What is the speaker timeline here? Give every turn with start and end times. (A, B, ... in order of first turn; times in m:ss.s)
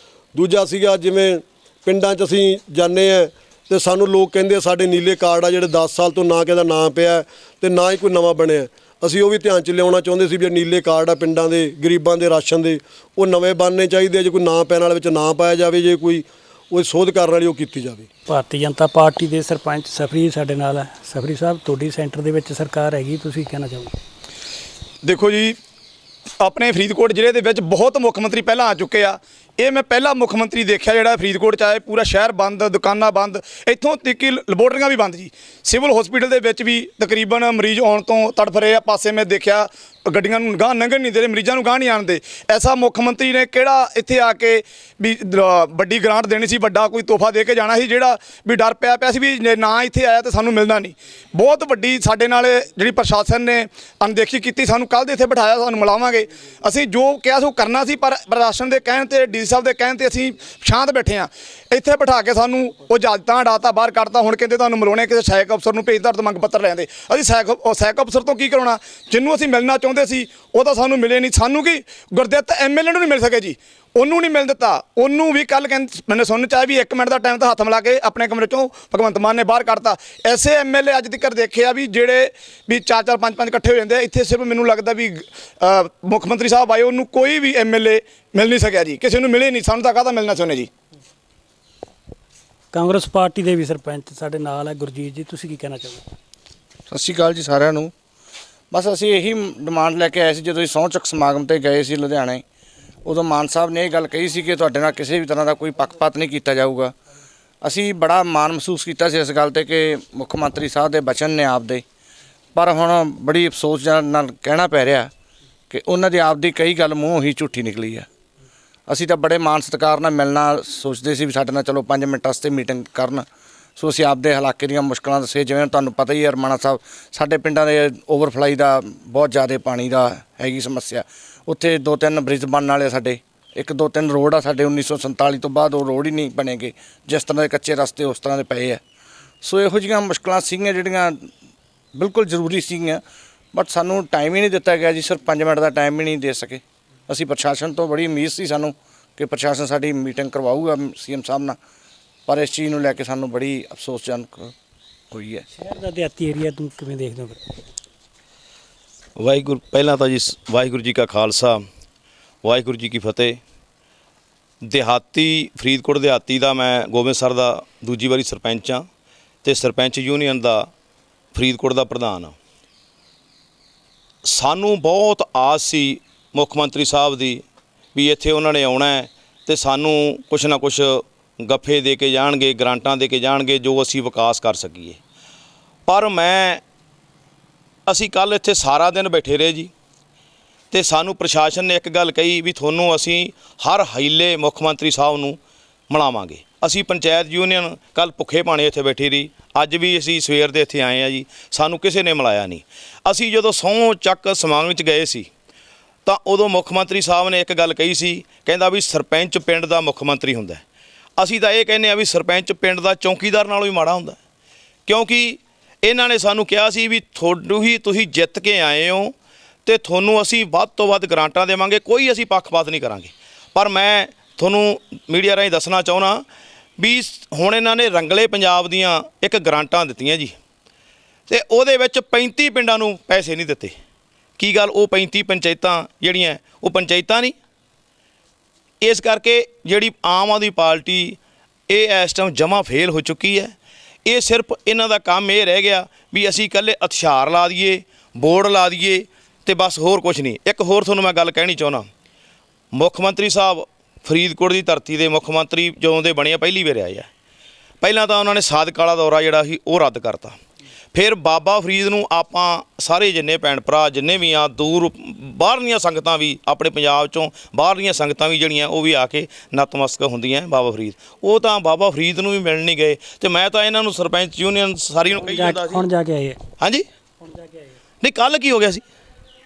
0:00.4-0:18.1 A
0:18.3-0:24.0 B
0:25.0-0:25.6 C
0:26.4-1:30.7 C
1:32.7-1:36.0 B
1:36.9-1:37.9 D
1:38.7-1:42.4 D
1:43.0-1:46.9 D
1:47.6-1:51.8 D
1:52.6-1:55.1 D
1:55.7-1:58.1 D
1:58.9-2:03.3 D
2:03.8-2:18.8 D
2:19.4-2:21.3 D
2:22.0-2:23.0 D
2:23.5-2:31.6 D
2:32.3-2:34.5 D
2:35.1-2:35.4 D
2:35.6-2:37.4 B
2:39.2-2:41.6 E
2:42.4-2:43.4 E
2:44.6-2:48.8 E
2:49.4-2:50.7 E
2:51.3-2:52.4 E
2:54.2-2:57.4 E
2:58.0-3:05.0 E
3:05.9-3:06.6 E
3:07.9-3:09.7 E
3:10.7-3:15.4 E
3:15.9-3:25.3 E
3:26.0-3:30.6 E
3:31.2-3:34.2 E
3:34.9-3:39.1 E
3:39.6-3:46.2 E
3:46.8-3:50.3 E
3:51.3-3:53.7 E
3:54.4-3:57.3 E
3:58.8-4:01.2 E
4:01.7-4:03.5 E
4:04.1-4:11.9 E
4:12.7-4:17.1 E
4:17.8-4:20.4 E
4:20.9-4:35.8 E
4:35.2-4:36.4 B
4:36.6-4:36.8 E
4:37.2-4:37.7 B
4:38.0-4:38.8 E